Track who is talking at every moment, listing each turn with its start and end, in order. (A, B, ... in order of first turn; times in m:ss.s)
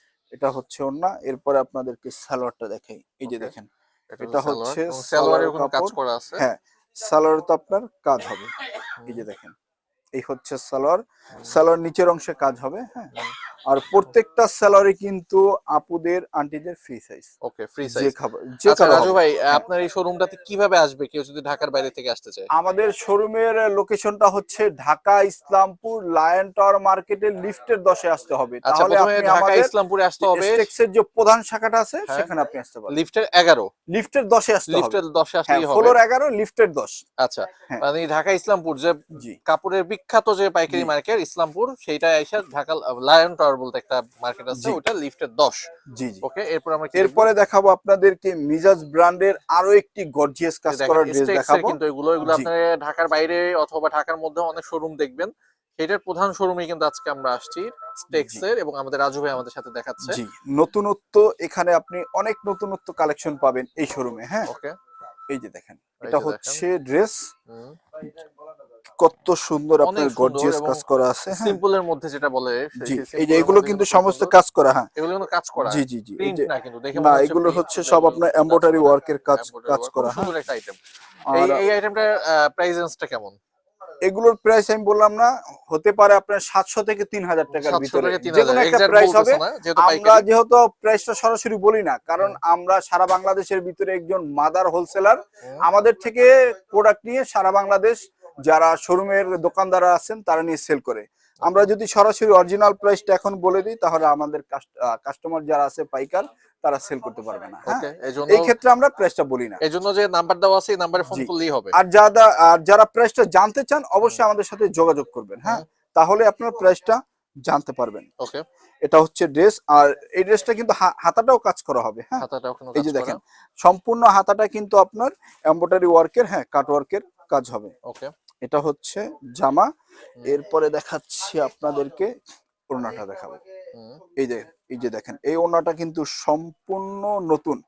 0:00.3-0:03.7 A
0:03.3-0:03.5 B
0:04.1-0:06.4 B
0:04.2-0:08.5 A
0:09.0-0:09.5 A
0:10.2-0:13.1 A
0:13.7-0:17.3 A
0:17.4-0:18.1 B
0:17.8-0:19.7 A
0:18.7-0:22.5 B
0:22.6-0:33.0 A
0:28.7-0:30.7 B
0:32.9-0:33.7 B
0:33.9-0:37.0 A
0:34.7-0:36.0 B
0:37.2-0:39.0 B
0:39.5-0:45.6 B
0:44.5-0:44.8 A
0:45.9-0:46.2 A
0:46.2-0:47.3 B
0:47.0-0:52.5 A
0:50.7-1:00.2 B
0:58.1-0:58.4 A
1:00.0-1:04.5 A
1:04.5-1:04.7 B
1:05.3-1:07.2 A
1:06.0-1:06.6 B
1:07.5-1:07.8 B
1:09.0-1:11.6 A
1:09.8-1:14.4 B
1:12.8-1:14.9 A
1:15.0-1:20.8 B
1:15.6-1:20.3 A
1:21.3-1:21.6 A
1:21.3-1:23.4 B
1:24.0-1:49.6 A
1:27.5-1:30.3 B
1:47.7-1:48.6 B
1:49.6-1:51.8 B
1:51.1-1:58.1 A
1:58.8-2:07.7 A
2:02.2-2:03.2 B
2:08.4-2:09.7 A
2:10.2-2:12.1 A
2:12.7-2:13.4 A
2:13.8-2:14.0 B
2:14.2-2:17.6 A